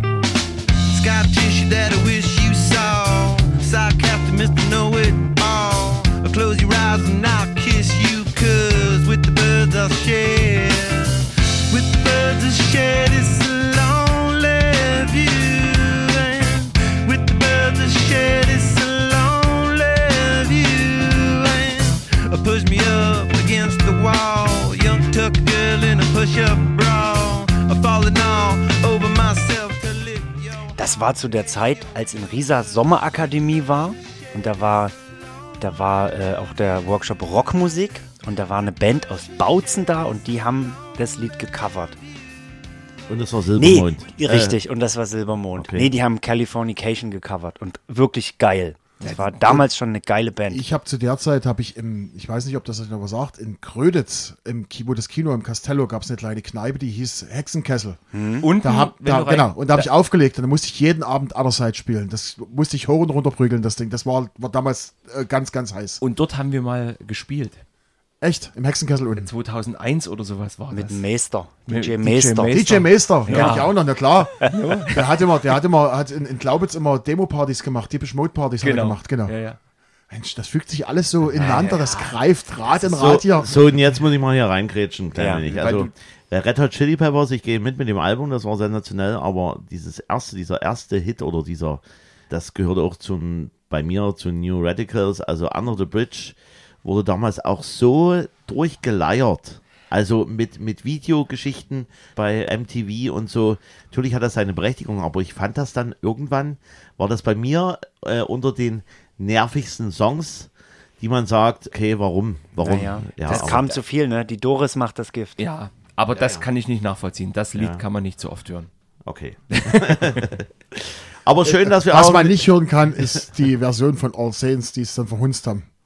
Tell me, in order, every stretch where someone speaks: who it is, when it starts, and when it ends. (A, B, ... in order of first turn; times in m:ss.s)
0:00.9-0:30.7 A
0:30.8-0:35.0 B
0:35.6-0:42.0 B
0:43.1-0:44.6 C
0:43.6-0:50.6 B
0:45.6-0:45.9 C
0:50.5-0:58.0 D
0:58.1-0:58.5 B
0:58.4-0:59.9 E
0:58.6-1:06.0 D
1:06.0-1:07.6 E
1:08.2-1:09.3 D
1:09.2-1:11.0 E
1:10.7-1:12.6 B
1:11.7-1:13.8 E
1:12.0-1:19.4 D
1:13.3-1:13.6 B
1:14.4-1:15.1 E
1:18.6-1:19.6 E
1:20.1-1:23.6 D
1:21.4-1:22.1 B
1:22.7-1:53.7 C
1:25.1-1:25.4 B
1:25.5-1:25.9 E
1:52.6-1:55.4 B
1:53.3-1:53.7 E
1:55.4-1:58.7 E
1:56.1-1:56.5 C
1:57.6-1:57.8 C
1:59.1-2:03.2 C
1:59.5-2:00.3 E
2:01.7-2:05.7 D